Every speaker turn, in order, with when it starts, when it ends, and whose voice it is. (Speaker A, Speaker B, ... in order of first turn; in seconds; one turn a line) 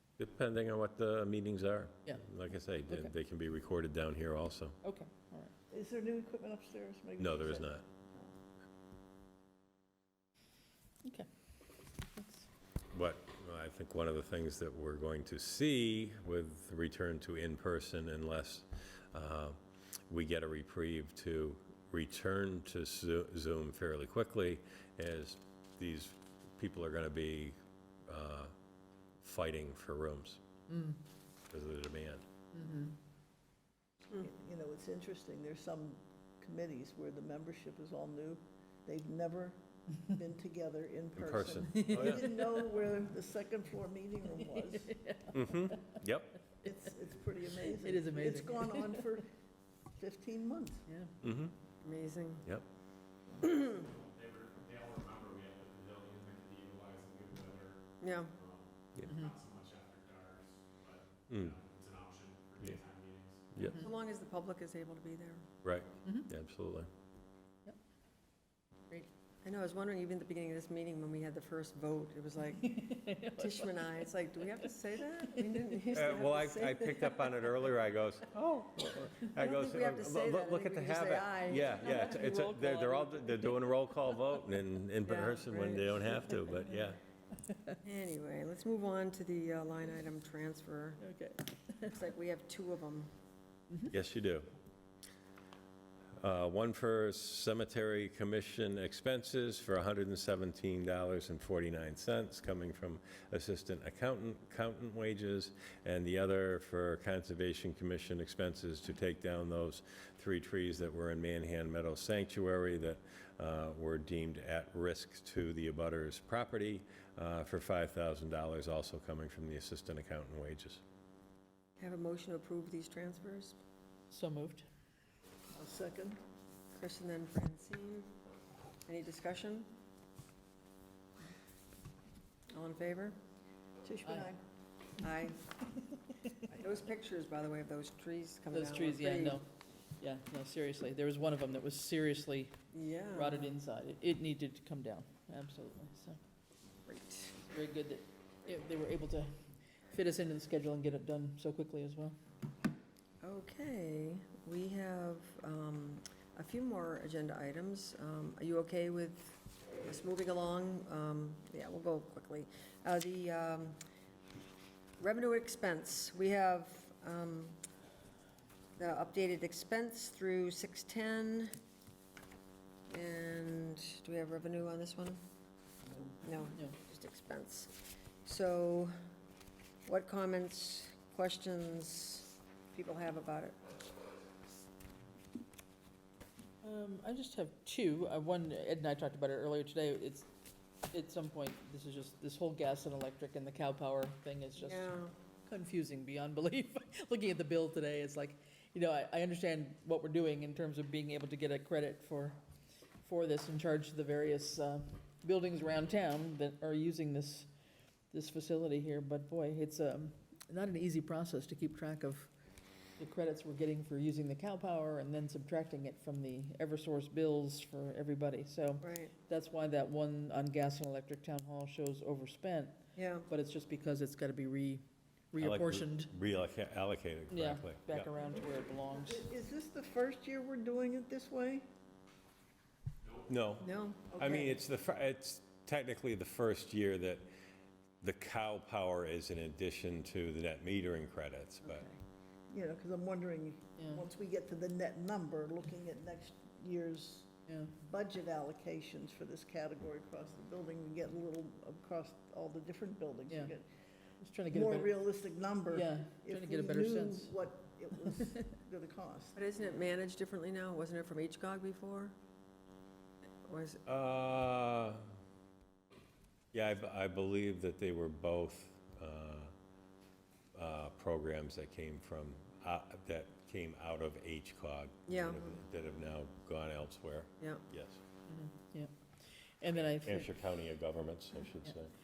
Speaker A: 0.2-4.8
Speaker B: 2.9-3.1
Speaker B: 4.8-5.5
Speaker C: 5.7-8.3
Speaker A: 7.2-7.8
Speaker B: 12.2-12.5
Speaker A: 12.9-19.6
Speaker A: 20.1-28.5
Speaker A: 29.2-30.4
Speaker B: 30.7-31.0
Speaker A: 31.5-32.2
Speaker B: 32.5-33.0
Speaker C: 34.2-45.0
Speaker A: 41.2-42.2
Speaker B: 41.7-42.5
Speaker B: 44.4-46.0
Speaker A: 45.3-46.4
Speaker C: 46.6-49.3
Speaker B: 47.7-49.2
Speaker C: 50.0-50.9
Speaker B: 50.9-51.1
Speaker A: 51.2-51.5
Speaker D: 51.8-52.5
Speaker E: 53.4-63.7
Speaker D: 53.4-53.7
Speaker D: 58.0-58.3
Speaker B: 59.1-59.4
Speaker A: 61.3-61.6
Speaker B: 63.6-63.9
Speaker D: 63.8-65.5
Speaker A: 65.6-66.9
Speaker B: 66.0-66.3
Speaker D: 69.4-77.3
Speaker B: 72.6-74.7
Speaker B: 75.2-75.9
Speaker A: 75.9-87.0
Speaker D: 79.4-82.3
Speaker B: 81.5-83.7
Speaker D: 85.0-85.9
Speaker B: 87.5-87.8
Speaker D: 87.8-91.0
Speaker B: 91.0-92.0
Speaker D: 91.9-93.1
Speaker A: 93.9-94.5
Speaker A: 96.2-120.8
Speaker D: 121.8-123.6
Speaker B: 124.1-124.7
Speaker C: 125.5-126.2
Speaker D: 126.8-128.1
Speaker D: 128.9-129.7
Speaker D: 132.5-133.2
Speaker C: 133.8-134.4
Speaker B: 134.1-134.3
Speaker D: 135.0-135.4
Speaker D: 136.4-139.4
Speaker B: 138.5-139.5
Speaker B: 140.0-142.6
Speaker D: 142.7-143.5
Speaker B: 143.1-146.2
Speaker D: 146.9-147.4
Speaker B: 147.4-149.3
Speaker B: 149.9-152.2
Speaker D: 153.2-163.8
Speaker D: 165.0-167.6
Speaker D: 168.8-171.6
Speaker D: 172.9-175.2
Speaker D: 176.2-178.9
Speaker B: 176.5-176.8
Speaker D: 179.8-183.6
Speaker B: 186.6-190.3
Speaker B: 190.9-202.4
Speaker D: 194.6-195.2
Speaker B: 203.0-207.5
Speaker B: 208.1-212.3
Speaker B: 213.0-222.8
Speaker D: 218.8-219.1
Speaker D: 223.0-223.3
Speaker B: 223.3-226.1
Speaker A: 225.4-228.1
Speaker B: 227.3-229.2
Speaker C: 228.2-231.7
Speaker E: 233.0-233.3
Speaker A: 233.3-237.3
Speaker D: 233.6-234.6
Speaker A: 238.0-241.9
Speaker B: 241.7-242.0
Speaker C: 242.5-253.8
Speaker B: 243.8-244.1
Speaker B: 247.5-247.7
Speaker B: 253.3-253.5
Speaker B: 254.2-255.0
Speaker C: 254.5-259.4
Speaker B: 255.7-257.3
Speaker D: 259.4-262.1
Speaker D: 263.4-263.8
Speaker A: 263.9-265.1
Speaker A: 266.5-269.5
Speaker A: 270.5-278.0
Speaker D: 275.1-275.5
Speaker D: 277.4-277.6
Speaker B: 278.3-278.9
Speaker B: 279.5-280.3
Speaker A: 279.8-281.9